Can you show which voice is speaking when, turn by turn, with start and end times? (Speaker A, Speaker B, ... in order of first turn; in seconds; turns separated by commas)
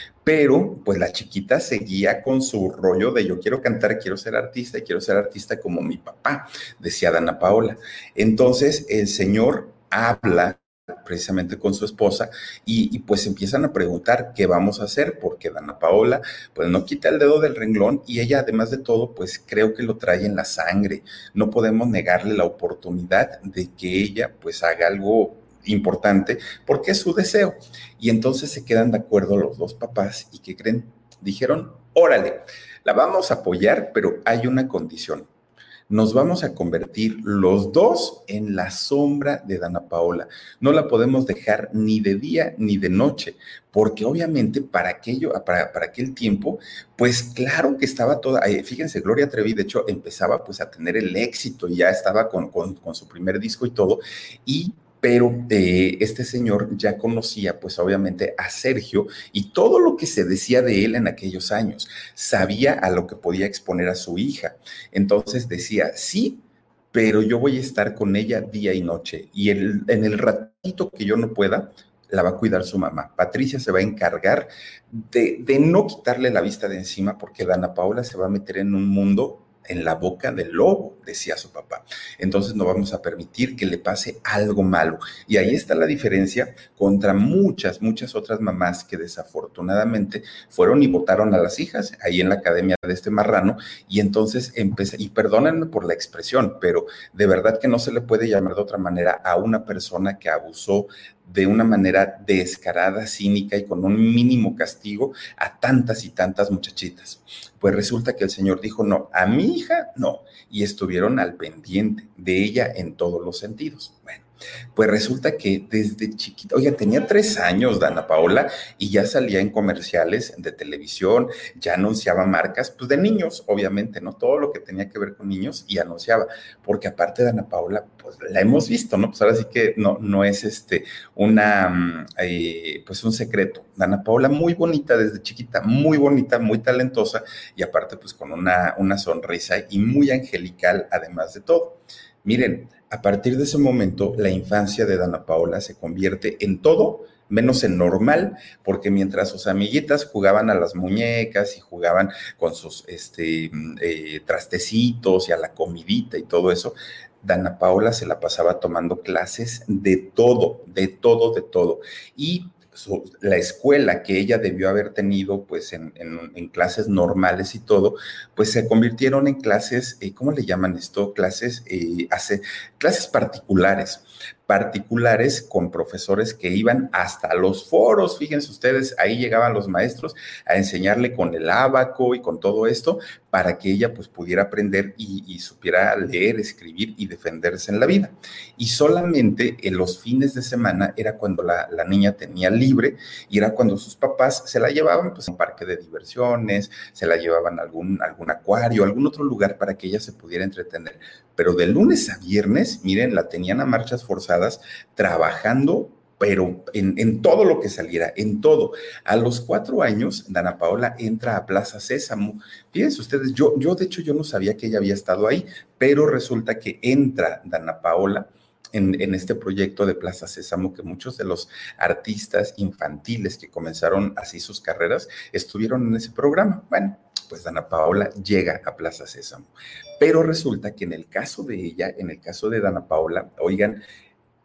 Speaker A: 0.2-35.3, Speaker A: 35.9-233.8